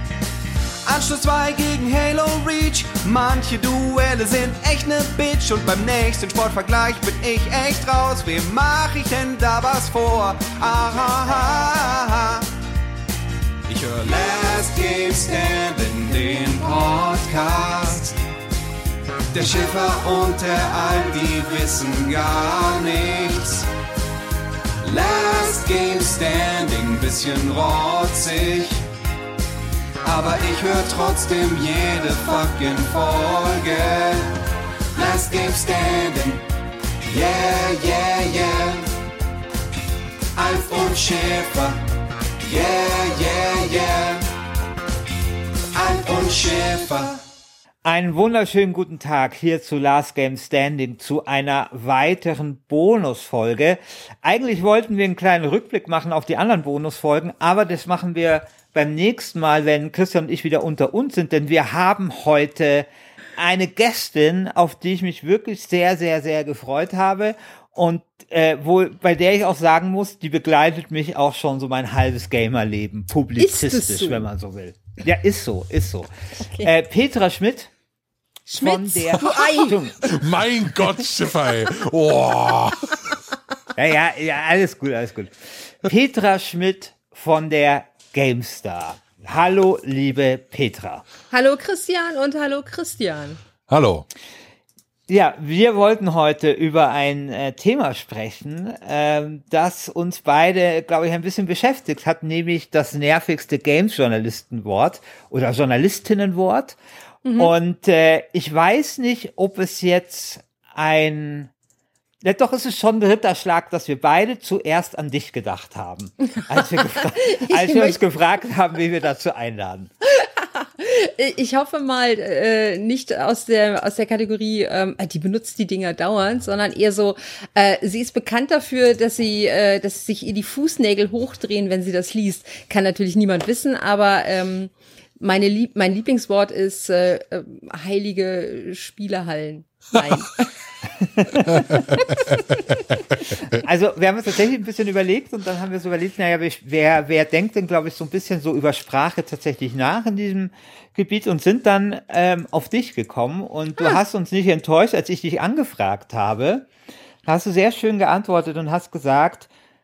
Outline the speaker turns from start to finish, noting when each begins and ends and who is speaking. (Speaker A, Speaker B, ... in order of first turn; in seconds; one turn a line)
Speaker A: 0.8-12.5
Speaker A: 13.7-18.2
Speaker A: 19.3-23.7
Speaker A: 24.8-28.8
Speaker A: 30.0-34.4
Speaker A: 34.9-36.5
Speaker A: 37.1-38.9
Speaker A: 40.3-41.8
Speaker A: 42.4-44.3
Speaker A: 45.7-47.2
Speaker B: 47.8-76.1
Speaker C: 73.4-74.3
Speaker C: 76.4-76.7
Speaker B: 76.6-77.7
Speaker C: 78.5-79.8
Speaker B: 78.6-80.2
Speaker D: 80.0-83.0
Speaker B: 83.7-91.0
Speaker C: 91.3-93.4
Speaker D: 93.7-94.0
Speaker B: 95.1-106.8
Speaker C: 107.2-107.5
Speaker B: 107.3-111.5
Speaker B: 112.2-119.9
Speaker C: 116.3-118.0
Speaker C: 120.0-140.5
Speaker B: 141.2-141.6
Speaker C: 141.3-142.6
Speaker B: 143.5-156.7
Speaker B: 157.2-159.5